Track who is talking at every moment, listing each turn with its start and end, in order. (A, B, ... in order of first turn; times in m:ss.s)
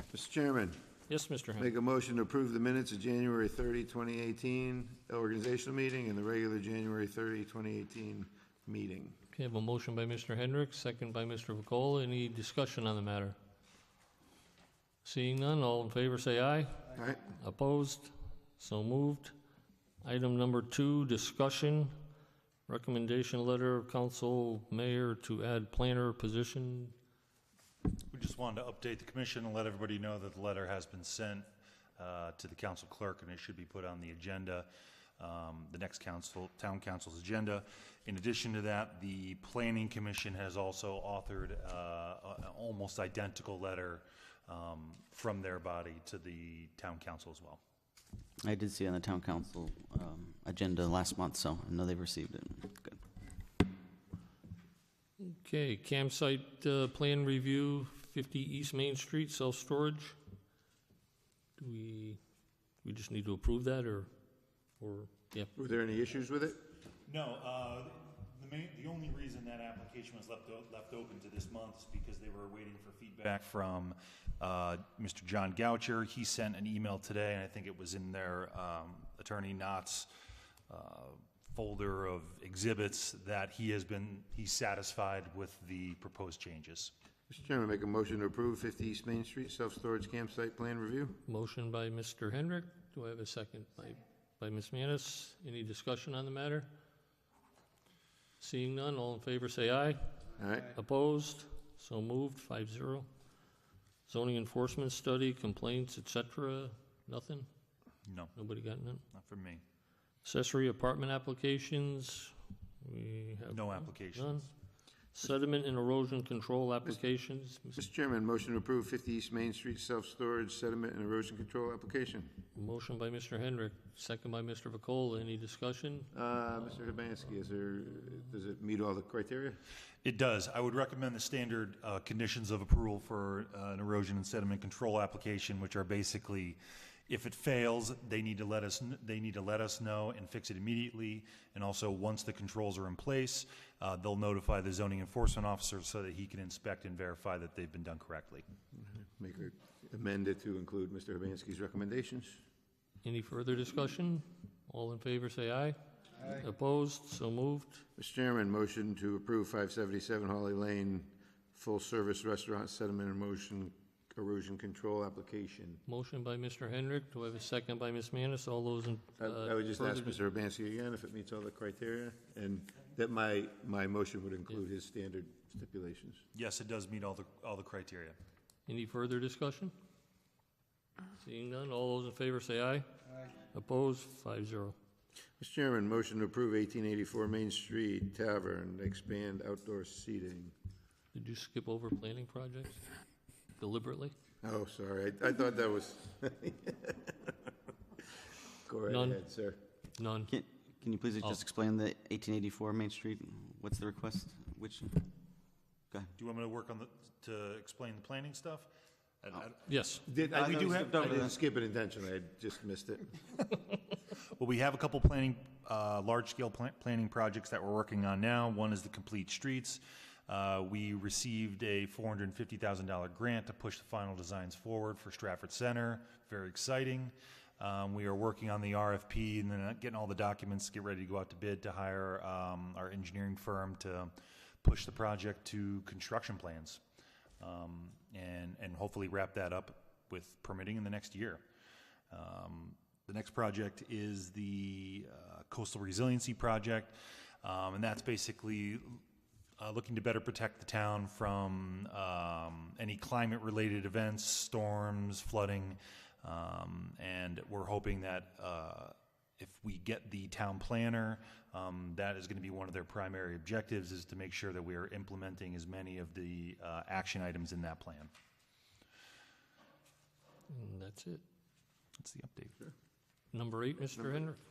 0:00.1-0:00.8 A
0:01.1-0:01.7 B
0:01.6-0:09.2 A
0:09.3-0:13.4 B
0:15.0-0:19.4 B
0:17.0-0:17.2 A
0:20.0-0:22.0 B
0:22.7-0:26.9 B
0:28.1-0:31.5 C
0:32.0-0:47.6 C
0:48.4-0:53.0 D
0:55.2-1:00.2 B
1:01.6-1:02.2 B
1:02.8-1:04.1 B
1:04.8-1:05.5 B
1:05.6-1:06.6 A
1:07.1-1:20.1 C
1:20.7-1:26.9 C
1:27.3-1:31.2 A
1:31.3-1:36.7 B
1:38.4-1:40.1 B
1:40.4-1:40.7 A
1:40.7-1:43.1 B
1:44.1-1:47.5 B
1:48.1-1:48.3 C
1:48.4-1:49.0 B
1:49.1-1:49.6 C
1:50.2-1:54.5 B
1:53.5-1:54.4 C
1:55.1-1:57.8 B
1:57.8-2:02.4 A
2:02.6-2:06.1 B
2:06.1-2:09.6 A
2:10.0-2:28.4 C
2:28.8-2:32.4 A
2:33.0-2:37.8 B
2:38.0-2:45.8 A
2:45.9-2:50.2 B
2:49.2-2:56.2 A
2:56.4-2:58.2 C
2:58.7-2:59.7 B
3:01.2-3:02.8 B
3:03.5-3:04.8 B
3:05.4-3:10.5 A
3:11.1-3:12.8 B
3:13.6-3:14.1 B
3:14.4-3:17.3 A
3:18.7-3:19.6 A
3:18.9-3:19.2 B
3:20.0-3:20.3 B
3:20.3-3:25.1 D
3:26.2-3:28.7 C
3:29.2-3:29.6 C
3:29.7-3:30.0 B
3:30.1-3:33.2 A
3:30.2-3:31.3 C
3:30.2-3:31.3 D
3:34.4-3:56.8 C
3:57.4-4:01.4 C
4:02.1-4:09.0 C
4:09.6-4:28.1 C
4:30.5-4:31.2 B
4:32.0-4:32.6 C
4:33.3-4:34.4 B
4:34.0-4:34.3 A